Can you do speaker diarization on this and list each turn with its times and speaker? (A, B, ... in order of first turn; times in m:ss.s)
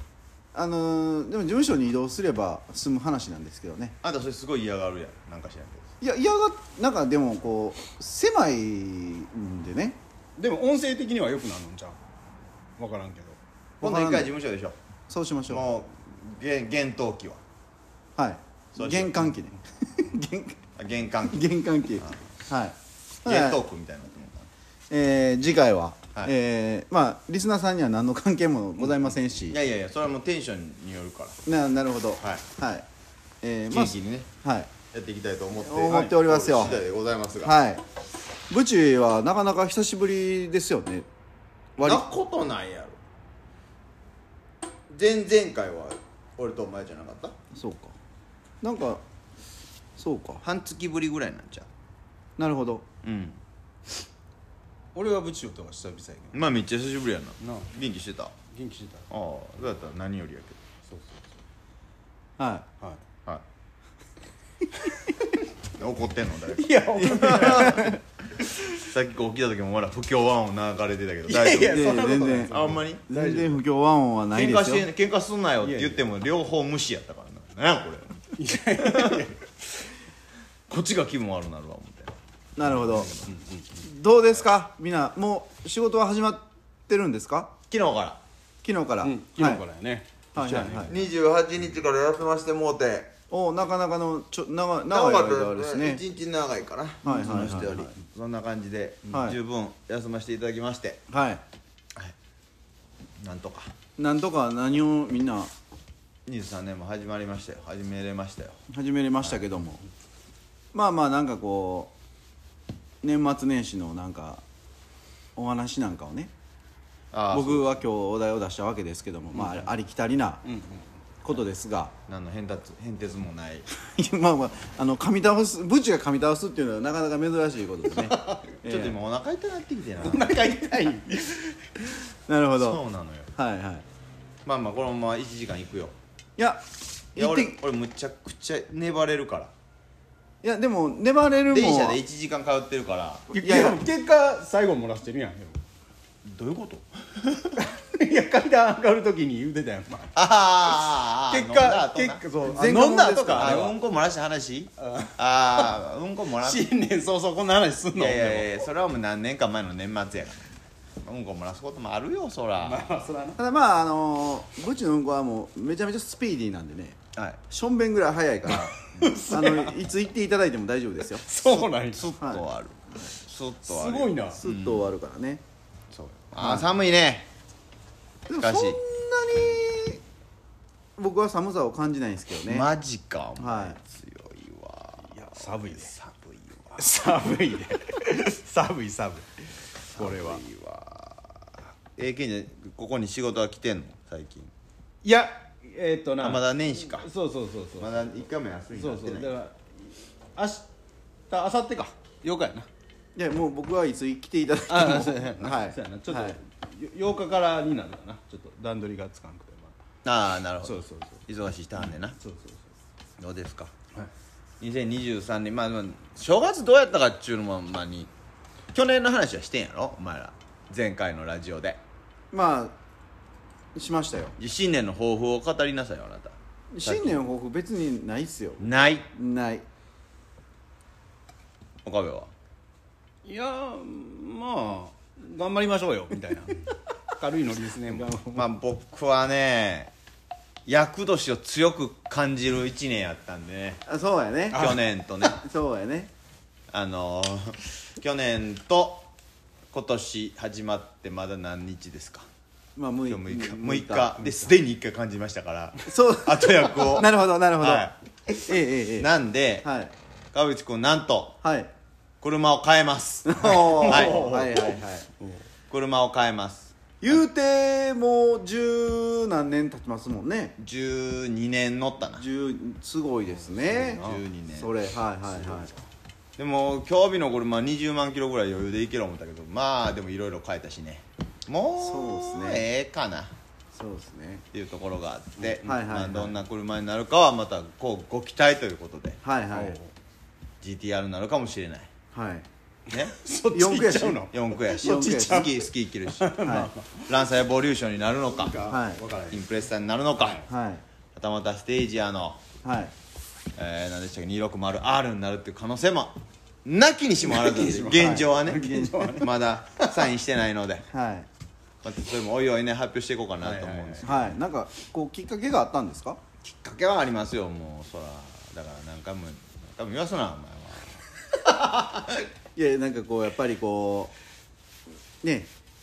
0:00.5-0:04.0 A
0:04.0-0:05.8 B
0:06.0-0:10.0 A
0:10.4-0:12.0 C
0:12.8-0:13.4 C
0:13.8-0:14.3 A
0:13.8-0:14.8 B
0:15.1-0:15.6 A
0:15.5-0:17.4 B
0:18.2-0:20.6 A
0:18.7-0:19.3 B
0:20.8-0:21.4 B
0:21.3-0:23.6 A
0:23.2-0:24.5 B
0:24.9-0:29.6 A
0:29.5-0:31.4 B
0:31.4-0:32.8 A
0:33.4-0:34.7 A
0:33.7-0:34.3 B
0:34.9-0:37.6 B
0:35.6-0:36.8 A
0:35.9-0:36.2 C
0:37.4-0:37.8 A
0:38.5-0:41.1 A
0:41.8-0:42.0 A
0:41.8-0:43.0 B
0:44.9-0:47.3 B
0:47.5-0:48.0 A
0:48.6-0:49.0 A
0:50.0-0:50.4 A
0:50.4-0:51.7 B
0:52.4-0:52.8 A
0:53.0-0:53.4 B
0:54.9-0:56.4 C
0:56.3-0:58.3 B
0:57.4-0:57.7 C
0:58.5-0:59.1 C
0:59.1-1:00.6 B
1:00.9-1:01.2 C
1:02.4-1:02.6 A
1:05.7-1:13.0 B
1:06.6-1:07.9 C
1:07.4-1:08.0 A
1:11.3-1:13.6 C
1:11.6-1:14.9 A
1:14.3-1:19.3 B
1:15.6-1:16.0 C
1:18.4-1:19.4 C
1:20.7-1:23.3 B
1:22.6-1:23.1 A
1:23.2-1:23.6 C
1:23.8-1:27.5 A
1:27.7-1:28.2 B
1:28.6-1:29.6 A
1:29.0-1:31.0 C
1:30.3-1:30.9 A
1:30.9-1:33.1 B
1:33.3-1:36.0 A
1:34.9-1:41.0 B
1:37.0-1:37.9 A
1:39.1-1:39.4 A
1:41.1-1:41.4 A
1:43.2-1:43.7 B
1:44.0-1:45.5 A
1:46.2-1:48.6 B
1:48.7-1:49.8 A
1:50.7-1:51.9 A
1:53.0-1:54.4 A
1:55.4-1:56.3 A
1:57.1-1:57.7 B
1:57.3-2:00.4 A
1:59.3-1:59.7 C
2:00.4-2:00.8 C
2:01.2-2:01.9 A
2:02.1-2:03.6 B
2:03.7-2:09.0 A
2:08.0-2:08.5 C
2:08.6-2:10.4 B
2:10.0-2:11.6 C
2:12.3-2:12.8 A
2:12.6-2:13.3 B
2:13.3-2:13.8 A
2:14.4-2:15.9 B
2:16.4-2:16.6 A
2:17.1-2:17.6 A
2:17.2-2:19.5 B
2:20.4-2:22.0 A
2:21.5-2:23.2 B
2:23.3-2:25.6 C
2:23.4-2:23.8 A
2:26.2-2:27.6 B
2:27.6-2:30.1 C
2:30.1-2:32.2 B
2:31.3-2:33.8 C
2:32.5-2:33.5 A
2:33.3-2:36.7 B
2:34.8-2:35.7 C
2:36.4-2:38.5 C
2:38.0-2:42.9 B
2:42.6-2:43.4 C
2:43.4-2:51.2 A
2:49.0-2:49.8 C
2:51.2-2:52.1 C
2:51.4-2:54.9 B
2:53.6-2:54.4 C
2:54.4-2:55.4 A
2:55.9-2:57.3 B
2:56.4-2:56.7 A
2:58.3-3:00.0 A
2:58.4-2:58.8 B
3:01.0-3:02.7 A
3:02.4-3:06.8 B
3:03.4-3:03.8 A
3:05.1-3:06.0 C
3:06.8-3:10.4 C
3:09.9-3:11.3 B
3:12.0-3:14.5 B
3:15.0-3:17.9 C
3:16.2-3:17.1 B
3:17.8-3:19.3 B
3:18.7-3:19.6 C
3:20.4-3:20.6 C
3:21.3-3:22.7 C
3:23.2-3:26.4 A
3:24.7-3:29.7 C
3:30.0-3:32.2 B
3:30.6-3:31.2 C
3:31.9-3:32.6 C
3:33.2-3:33.7 B
3:34.6-3:38.1 B
3:38.7-3:41.8 B
3:42.3-3:42.8 A
3:43.8-3:44.4 A
3:44.4-3:47.2 B
3:46.7-3:49.6 A
3:48.6-3:49.1 B
3:51.8-3:52.3 B
3:53.2-3:58.2 C
3:57.9-3:58.4 A
3:58.3-3:59.9 B
4:00.6-4:03.8 B
4:03.9-4:04.7 A
4:04.5-4:04.8 C
4:04.5-4:05.4 B
4:05.2-4:06.1 A
4:06.7-4:09.1 B
4:09.7-4:12.3 B
4:12.8-4:14.5 A
4:13.1-4:17.9 B
4:15.8-4:19.1 A
4:18.9-4:19.6 B
4:19.6-4:19.9 A
4:20.3-4:21.4 B
4:21.4-4:21.7 A
4:22.2-4:24.7 B
4:23.2-4:25.0 A
4:23.8-4:25.4 C
4:25.7-4:27.2 B
4:27.0-4:30.6 A
4:30.6-4:32.2 B
4:32.1-4:34.0 A
4:33.8-4:34.7 B
4:33.9-4:34.2 C
4:34.5-4:35.7 A
4:35.4-4:35.7 B
4:36.4-4:43.3 B
4:41.8-4:42.6 A
4:43.7-4:44.4 A
4:44.5-4:49.2 B
4:45.6-4:46.3 A
4:49.2-4:49.8 A
4:49.5-4:49.9 C
4:50.6-4:51.9 B
4:52.1-4:52.4 A
4:52.9-4:53.2 B
4:53.0-4:57.1 C
4:53.5-4:54.3 A
4:54.3-4:58.7 B
4:54.8-4:55.5 A
4:56.4-4:56.7 A
4:58.4-4:59.4 C
4:58.7-4:59.0 A
4:59.3-5:00.4 B
5:00.5-5:00.8 A
5:01.2-5:02.4 B
5:02.6-5:02.9 A
5:03.6-5:10.8 B
5:07.2-5:10.1 C
5:08.0-5:09.1 A
5:10.9-5:11.3 A
5:11.8-5:14.3 B
5:13.4-5:14.1 C
5:14.0-5:16.2 A
5:16.4-5:21.0 B
5:21.7-5:22.2 B
5:22.5-5:24.1 A
5:25.2-5:25.5 A